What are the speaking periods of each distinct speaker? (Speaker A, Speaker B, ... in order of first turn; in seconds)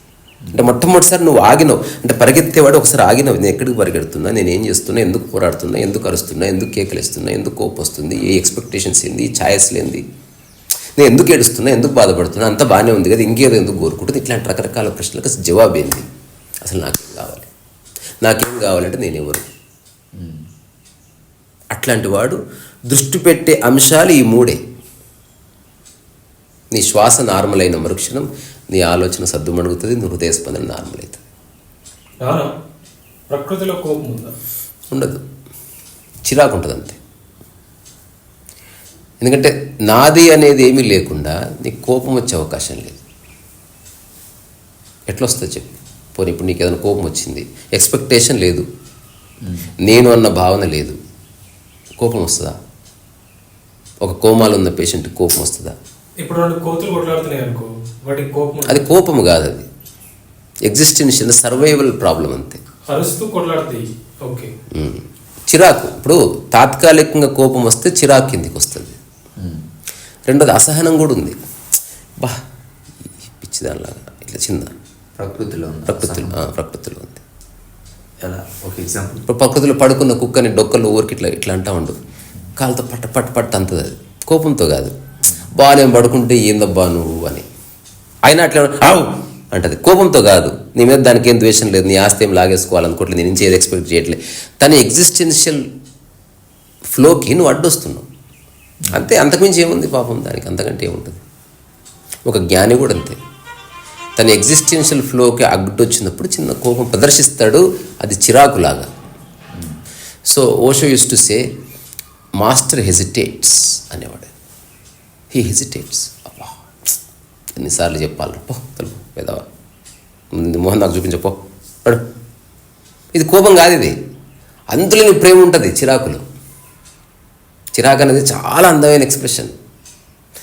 Speaker A: 0.4-0.7, 20.1-20.5, 49.4-49.7, 69.4-69.7, 75.2-76.4, 78.2-79.2
Speaker B: 0.5-10.0, 11.0-16.1, 16.6-17.5, 18.2-19.5, 21.7-24.6, 26.7-31.2, 34.9-35.2, 36.3-37.0, 39.2-43.0, 45.1-48.7, 49.8-51.0, 52.0-52.6, 54.0-55.8, 58.7-59.7, 60.7-62.6, 64.7-69.0, 70.3-71.4, 73.4-74.8, 75.9-77.2, 79.3-82.0, 82.6-84.9, 85.5-87.5, 88.2-95.6, 96.9-98.1, 98.9-101.2, 102.3-103.2, 104.2-108.9, 110.3-111.5, 112.4-114.3, 115.3-116.9, 117.6-119.5, 120.3-122.0, 123.2-123.9, 124.7-126.2, 127.8-129.5
Speaker C: 32.2-32.5, 33.3-34.3, 56.2-58.9, 62.9-64.5